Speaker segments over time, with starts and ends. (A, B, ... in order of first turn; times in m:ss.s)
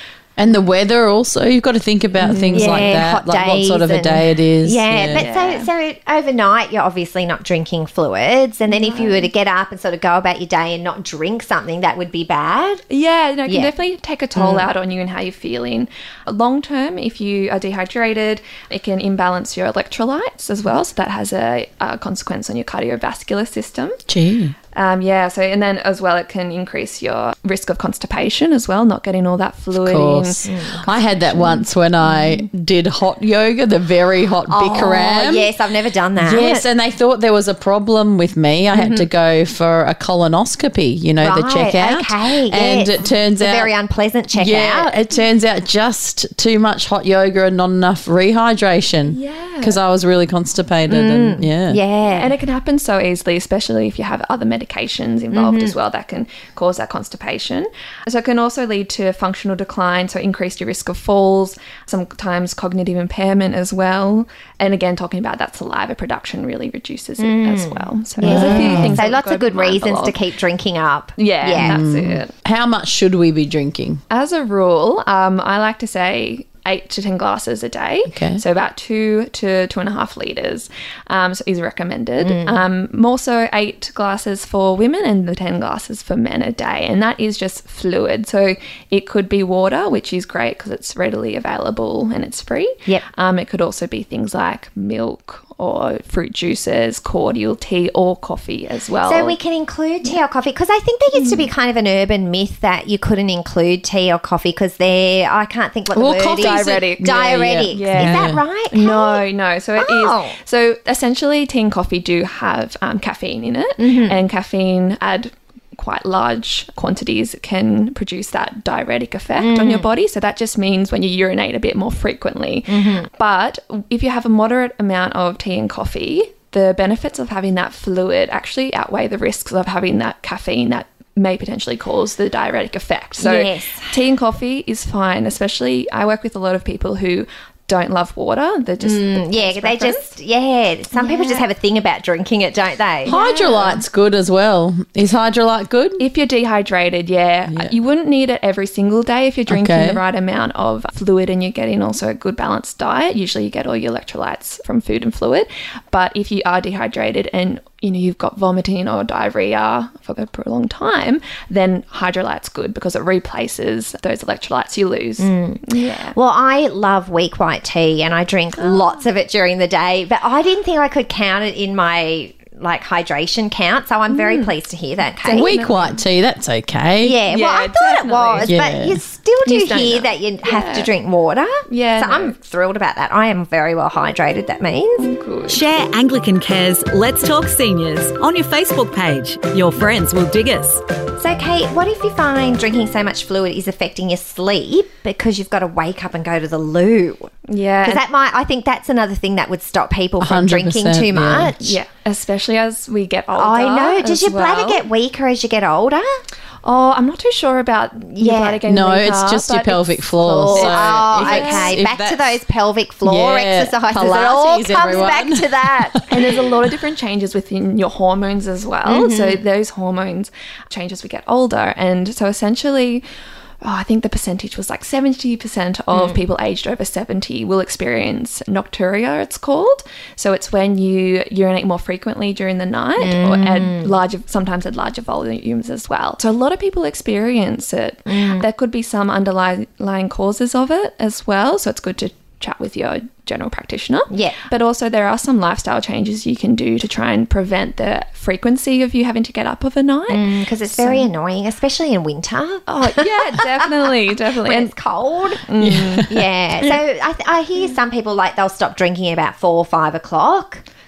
0:00.4-0:05.3 A
0:02.2-0:03.0 B
0:02.5-0:12.8 C
0:05.1-0:05.7 B
0:08.7-0:09.3 B
0:12.9-0:24.0 B
0:13.4-0:13.7 C
0:14.3-0:14.7 C
0:24.1-0:24.5 A
0:24.7-0:32.5 B
0:29.7-0:35.5 A
0:30.5-0:30.9 C
0:34.5-0:36.6 C
0:36.2-0:43.7 A
0:38.7-0:39.1 C
0:41.2-0:45.0 C
0:44.3-0:51.8 A
0:49.1-0:49.8 B
0:50.9-0:52.4 C
0:52.0-1:10.2 B
0:55.3-0:55.7 C
1:07.2-1:11.8 C
1:08.2-1:09.0 A
1:11.2-1:12.3 B
1:11.6-1:14.0 A
1:14.1-1:39.4 B
1:18.1-1:18.4 A
1:22.2-1:22.6 C
1:39.0-1:49.2 C
1:41.1-1:41.5 B
1:45.9-1:48.4 A
1:46.3-1:47.2 B
1:47.7-2:20.1 B
1:49.8-1:50.4 C
1:53.8-1:54.2 C
1:59.4-1:59.9 C
2:02.7-2:03.1 C
2:13.2-2:14.0 C
2:18.8-2:23.2 C
2:20.9-2:21.4 B
2:23.0-2:23.8 B
2:23.0-2:26.0 A
2:26.0-2:46.1 B
2:27.5-2:27.7 A
2:29.5-2:30.0 A
2:45.2-2:55.5 C
2:48.6-2:49.0 B
2:54.1-2:54.5 B
2:55.2-2:56.0 B
2:55.3-2:57.2 A
2:57.0-3:05.1 C
2:57.2-2:58.6 B
2:58.4-2:59.0 A
2:59.4-3:00.9 B
3:01.7-3:02.4 B
3:05.0-3:05.6 B
3:05.5-3:10.8 D
3:11.2-3:17.3 C
3:17.5-3:18.0 B
3:17.8-3:21.8 C
3:20.2-3:21.6 A
3:21.6-3:24.8 B
3:23.3-3:26.2 C
3:26.6-3:31.8 B
3:28.1-3:28.6 C
3:28.6-3:32.4 A
3:30.2-3:36.5 C
3:33.0-3:36.2 A
3:36.1-3:43.0 B
3:38.8-3:39.4 C
3:43.6-4:11.1 B
3:53.0-3:53.9 C
3:58.1-3:58.4 C
4:04.1-4:04.4 C
4:10.1-4:13.4 C
4:12.7-4:14.7 B
4:14.4-4:15.5 C
4:15.4-4:16.1 B
4:15.6-4:16.1 A
4:16.1-4:20.6 C